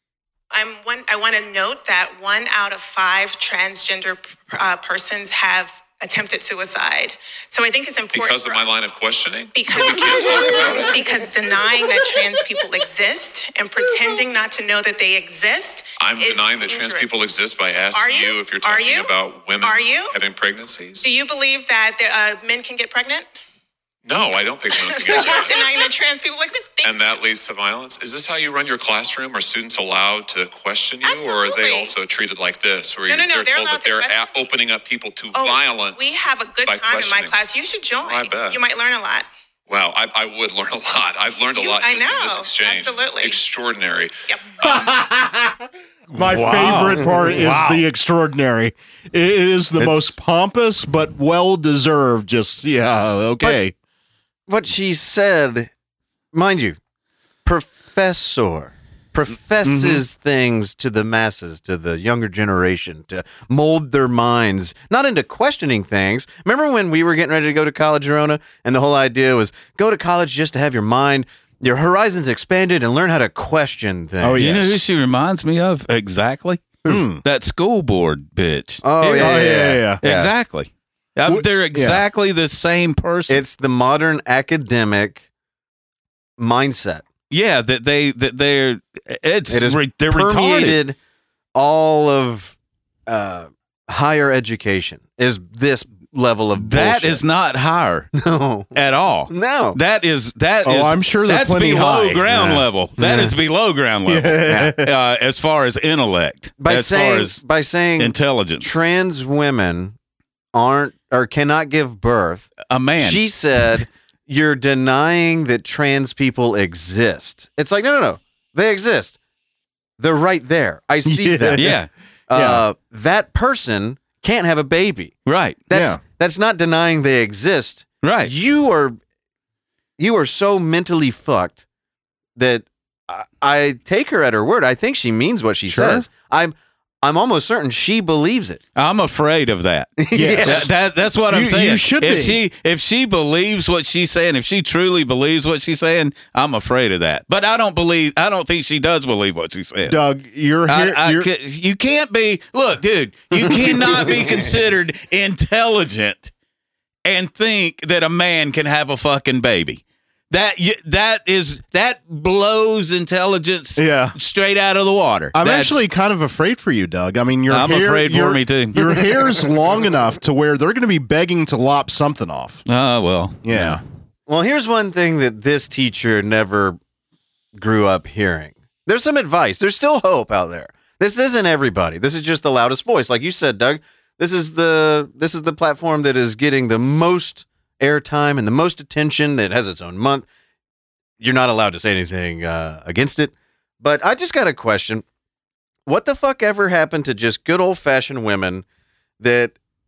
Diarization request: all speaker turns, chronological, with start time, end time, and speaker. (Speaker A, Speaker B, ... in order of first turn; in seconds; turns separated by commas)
Speaker A: 0.5-8.7, Speaker B: 8.1-11.3, Speaker A: 9.5-17.2, Speaker B: 16.0-21.1, Speaker A: 17.9-20.1, Speaker A: 21.0-23.4, Speaker B: 24.1-25.9, Speaker A: 24.8-27.2, Speaker B: 26.8-37.4, Speaker A: 31.0-31.9, Speaker A: 33.1-34.3, Speaker A: 35.3-39.3, Speaker B: 38.0-38.6, Speaker B: 39.7-44.9, Speaker A: 41.4-43.4, Speaker C: 44.6-53.8, Speaker D: 46.3-47.8, Speaker E: 49.8-50.1, Speaker E: 54.5-55.7, Speaker E: 56.3-56.8, Speaker E: 57.5-74.6, Speaker C: 59.6-60.0, Speaker C: 74.2-74.8, Speaker D: 74.4-83.4, Speaker C: 76.9-77.2, Speaker E: 78.8-80.3, Speaker C: 79.2-80.0, Speaker C: 81.3-82.0, Speaker E: 83.3-85.3, Speaker E: 86.4-87.0, Speaker D: 87.3-90.8, Speaker E: 89.5-91.0, Speaker E: 91.5-92.6, Speaker E: 93.1-97.2, Speaker D: 96.6-98.1, Speaker E: 98.2-99.8, Speaker D: 98.8-107.4, Speaker C: 100.7-103.3, Speaker E: 103.0-103.3, Speaker C: 104.1-104.9, Speaker E: 104.5-104.7, Speaker E: 106.6-110.0, Speaker D: 108.0-108.7, Speaker E: 110.5-119.2, Speaker D: 112.7-113.2, Speaker E: 120.0-121.7, Speaker C: 121.0-121.8, Speaker D: 121.6-121.9, Speaker E: 122.3-125.2, Speaker C: 122.3-122.6, Speaker D: 125.3-125.6, Speaker E: 125.7-129.0, Speaker C: 125.7-126.0, Speaker D: 128.0-128.3, Speaker E: 130.0-131.6, Speaker E: 132.4-138.6, Speaker C: 135.7-136.1, Speaker D: 138.8-150.0, Speaker E: 140.0-140.7, Speaker C: 140.1-140.7, Speaker C: 141.3-142.4, Speaker C: 149.9-151.3, Speaker D: 150.7-156.3, Speaker E: 153.4-154.4, Speaker D: 157.1-165.8, Speaker C: 163.8-164.2, Speaker C: 165.3-172.6, Speaker D: 167.5-169.1, Speaker D: 172.7-173.8, Speaker C: 173.4-173.8, Speaker E: 174.3-176.8, Speaker E: 177.6-190.3, Speaker E: 191.2-195.1, Speaker E: 195.9-198.7, Speaker E: 199.2-199.6